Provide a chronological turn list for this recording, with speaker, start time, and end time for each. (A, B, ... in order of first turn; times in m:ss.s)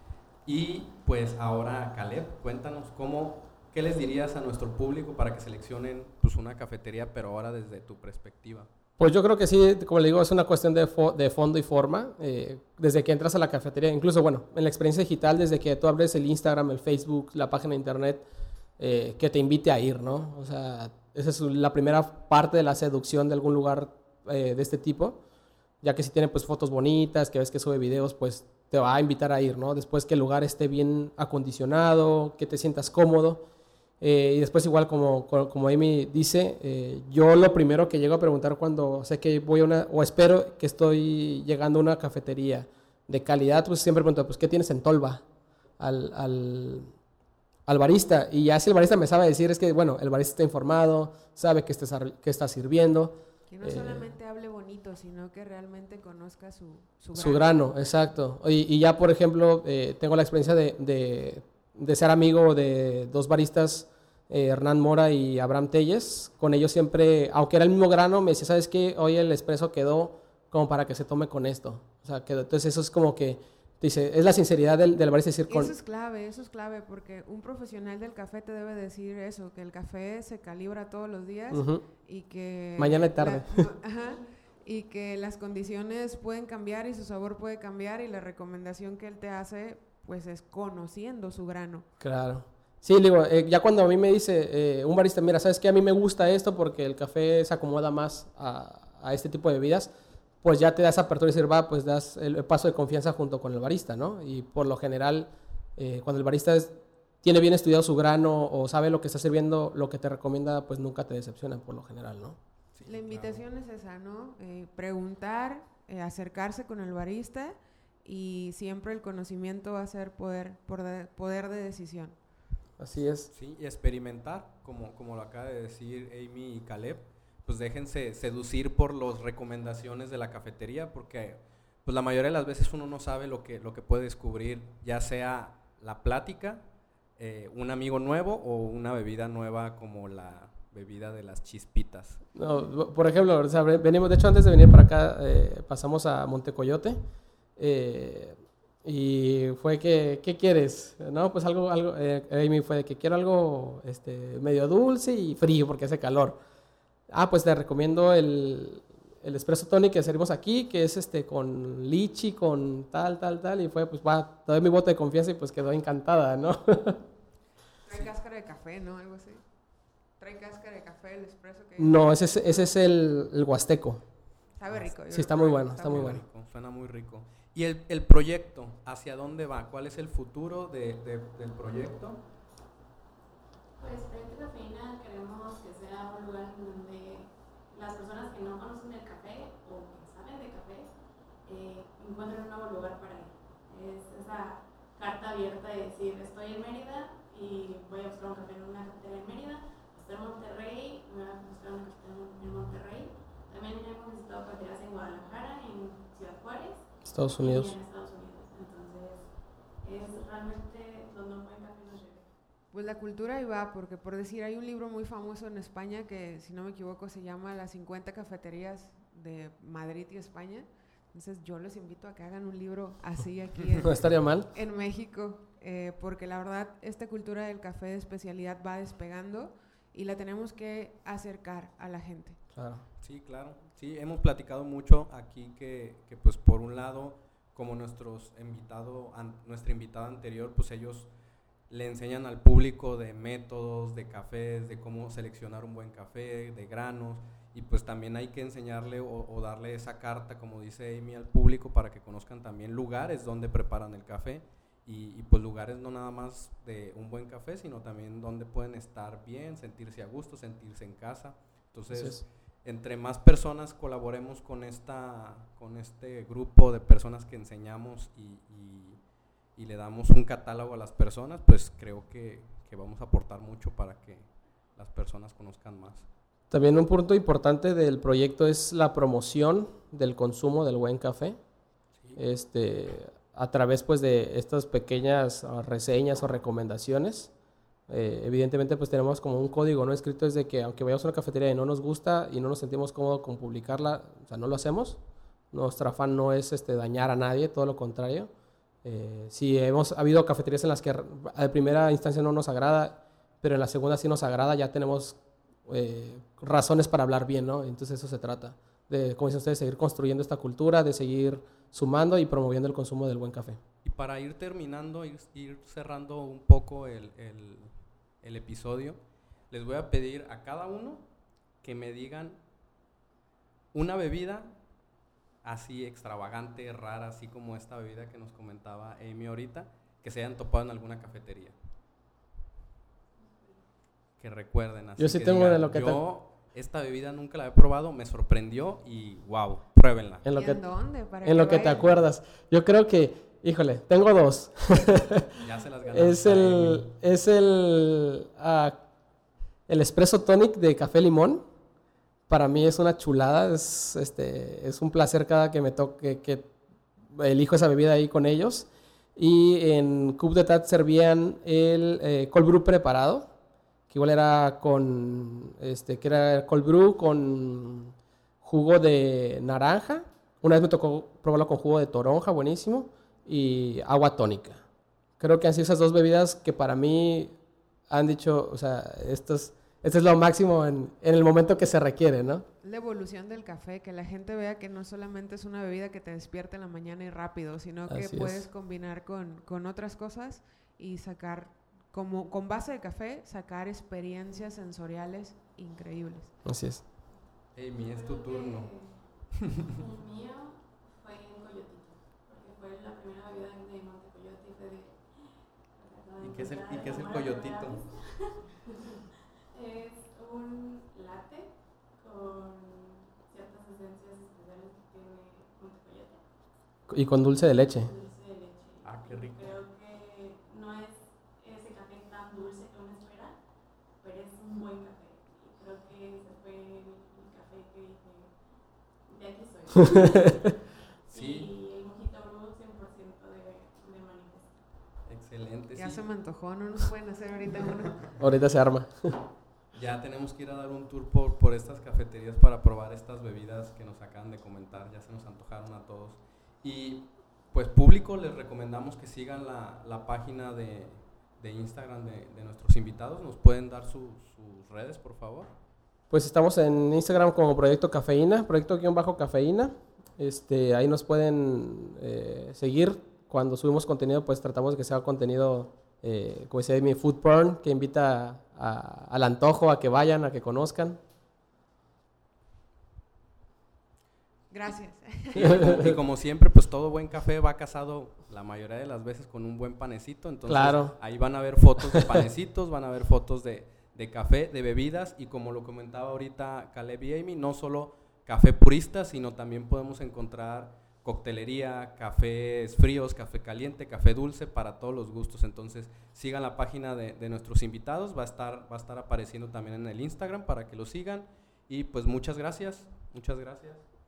0:00.4-0:08.7 A
0:09.0-0:18.2 B
0:18.8-0:25.2 B
0:25.8-0:33.4 B
0:34.0-0:45.2 B
0:45.8-0:46.9 B
0:47.7-0:54.1 B
0:53.5-0:57.6 C
0:57.2-1:15.7 B
1:15.5-1:31.9 C
1:21.5-1:21.8 B
1:22.8-1:23.7 B
1:32.0-1:39.9 B
1:40.4-1:52.4 B
1:52.8-1:53.5 A
1:52.9-2:02.2 C
2:02.8-2:03.3 B
2:03.3-2:16.6 A
2:17.2-2:22.2 A
2:22.4-2:27.0 B
2:27.6-2:36.4 B
2:37.1-2:47.0 B
2:47.8-2:49.4 C
2:50.2-2:52.4 C
2:51.8-2:54.0 B
2:54.6-2:56.2 C
2:54.6-2:55.0 A
2:55.1-2:56.2 B
2:55.8-3:02.2 A
3:03.8-3:10.9 D
3:11.5-3:29.3 D
3:27.0-3:27.7 B
3:29.8-3:32.3 D
3:32.7-3:52.4 C
3:43.8-3:44.5 B
3:52.5-3:52.8 B
3:53.0-4:01.1 A
4:01.7-4:29.0 A
4:21.9-4:22.2 B
4:29.6-4:36.1 A
4:36.5-4:41.4 B
4:42.2-4:47.3 B
4:47.9-4:55.0 B
4:55.5-4:58.3 B
4:58.8-5:13.6 B
5:13.8-5:17.7 A
5:18.2-5:19.0 A
5:19.5-5:21.0 A
5:21.6-5:22.4 A
5:23.7-5:24.6 A
5:25.4-5:31.6 A
5:33.2-5:33.6 D
5:34.2-5:40.2 A
5:35.0-5:36.0 B
5:40.2-5:40.7 B
5:40.3-5:42.0 C
5:41.2-5:45.4 B
5:45.3-5:46.9 A
5:45.9-5:48.8 B
5:49.7-5:51.4 B
5:52.3-5:56.5 B
5:57.1-6:03.3 B
6:03.9-6:14.6 B
6:15.2-6:17.4 B
6:17.9-6:22.5 B
6:22.6-6:36.4 C
6:27.9-6:28.5 B
6:36.4-6:36.8 B
6:37.6-6:38.8 A
6:37.8-6:39.0 D
6:39.7-6:56.2 D
6:46.2-6:47.8 A
6:56.9-6:57.9 B
6:57.6-7:03.4 D
6:58.8-6:59.6 A
7:04.0-7:08.3 D
7:09.1-7:10.5 D
7:11.1-7:11.5 A
7:11.1-7:14.6 D
7:15.1-7:16.1 A
7:15.8-7:18.1 C
7:18.2-7:19.2 B
7:19.7-7:35.5 A
7:36.1-7:51.0 B
7:54.5-7:55.9 C
7:55.4-8:23.8 A
7:55.4-7:56.0 B
8:00.5-8:01.0 B
8:01.9-8:02.2 B